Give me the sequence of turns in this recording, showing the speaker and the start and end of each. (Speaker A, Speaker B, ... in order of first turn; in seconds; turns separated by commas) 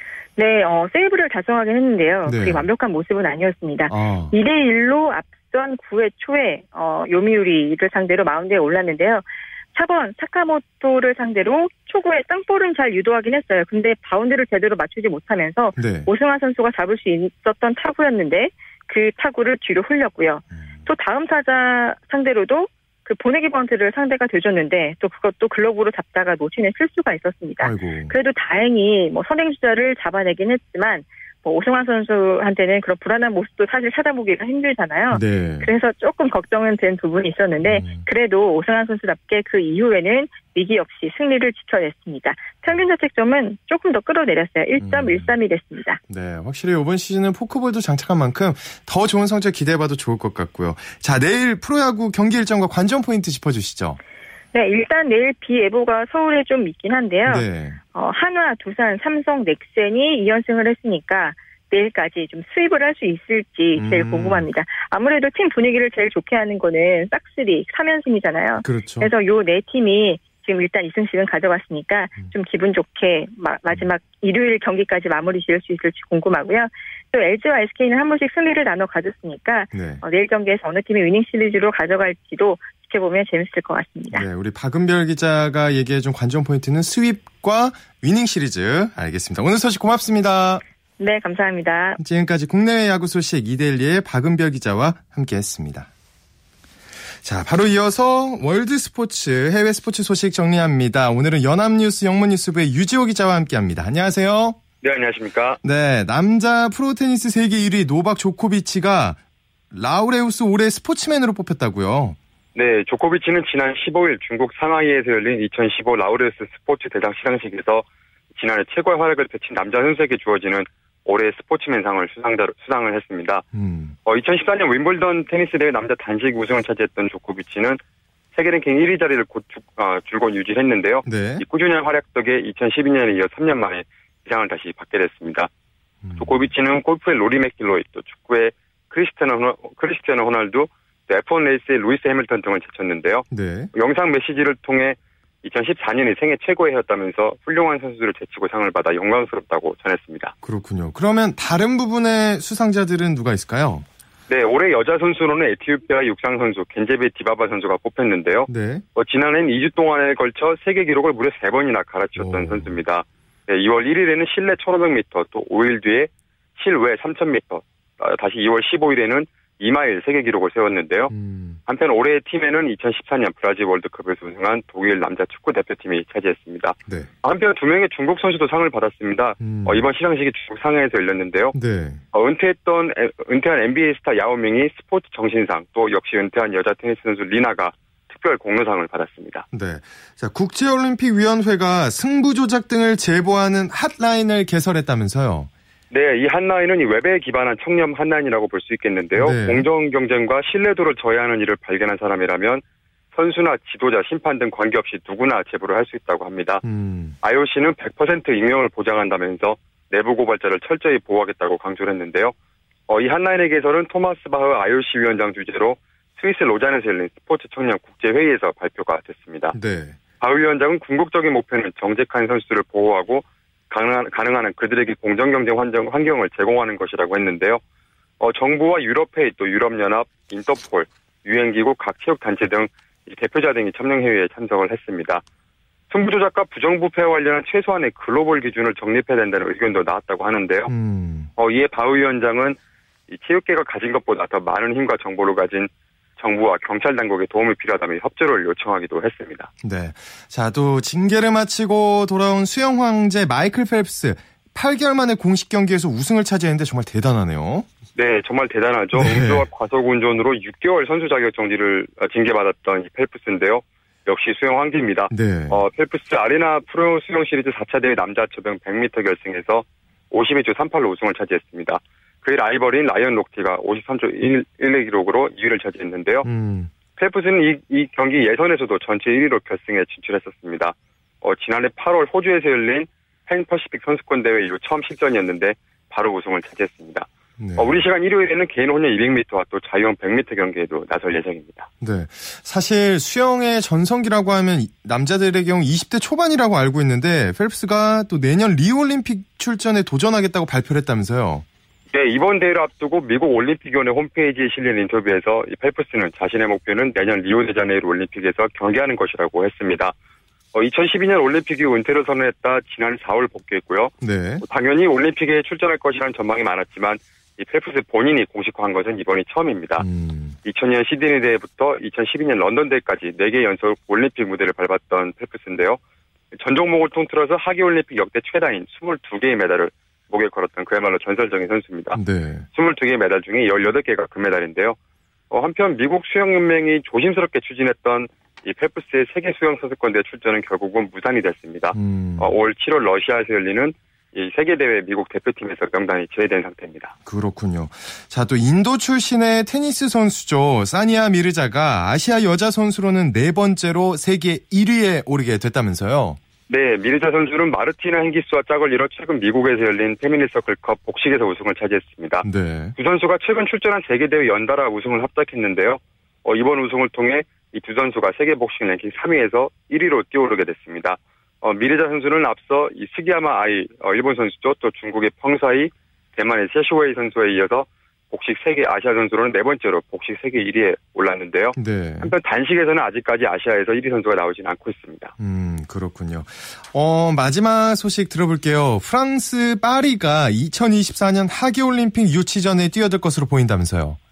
Speaker A: 0.4-46.0, Speaker B: 2.2-2.7, Speaker B: 3.9-4.3, Speaker B: 15.8-16.1, Speaker B: 20.5-20.9, Speaker B: 27.6-28.1, Speaker B: 35.1-35.7, Speaker B: 37.6-38.0, Speaker B: 44.8-45.3, Speaker B: 46.1-54.0, Speaker A: 54.5-84.2, Speaker B: 57.2-57.8, Speaker B: 63.8-64.5, Speaker B: 68.6-69.1, Speaker B: 79.7-80.0, Speaker B: 84.1-90.6, Speaker A: 91.0-92.0, Speaker B: 92.0-95.9, Speaker B: 97.2-104.6, Speaker C: 104.8-105.6, Speaker B: 105.6-109.2, Speaker B: 109.7-112.2, Speaker C: 112.5-123.4, Speaker B: 123.5-123.9, Speaker C: 124.0-127.8, Speaker C: 128.3-135.5, Speaker B: 131.0-131.4, Speaker B: 136.0-136.5, Speaker C: 136.2-150.3, Speaker B: 143.3-143.7, Speaker B: 150.4-153.8, Speaker C: 154.3-171.1, Speaker B: 158.5-158.8, Speaker B: 162.2-162.7, Speaker B: 171.1-171.6, Speaker C: 171.7-181.5, Speaker B: 179.4-179.8, Speaker B: 181.5-182.0, Speaker C: 182.1-189.4, Speaker B: 189.5-195.5, Speaker C: 195.9-202.6, Speaker B: 199.2-199.7, Speaker C: 203.1-206.6, Speaker B: 206.6-207.2, Speaker C: 207.2-212.3, Speaker C: 212.9-219.5, Speaker B: 219.5-220.0, Speaker C: 220.2-227.6, Speaker C: 228.2-235.2, Speaker C: 235.9-240.7, Speaker B: 240.7-241.3, Speaker C: 241.4-242.6, Speaker C: 243.1-249.5, Speaker B: 249.6-257.6, Speaker C: 257.9-276.3, Speaker B: 258.9-259.5, Speaker B: 265.1-265.6, Speaker B: 276.2-276.7, Speaker C: 276.9-291.7, Speaker B: 287.4-287.8, Speaker B: 291.8-301.4, Speaker C: 301.9-309.9, Speaker C: 310.5-319.8, Speaker B: 314.0-314.4, Speaker B: 319.8-320.4, Speaker C: 320.4-325.8, Speaker C: 326.3-332.0, Speaker B: 331.9-332.4, Speaker C: 332.5-334.8, Speaker C: 335.3-346.9, Speaker B: 341.7-342.3, Speaker B: 347.1-356.2, Speaker C: 356.5-362.2, Speaker B: 362.2-362.8, Speaker C: 362.8-385.1, Speaker B: 381.6-382.1, Speaker B: 385.2-394.0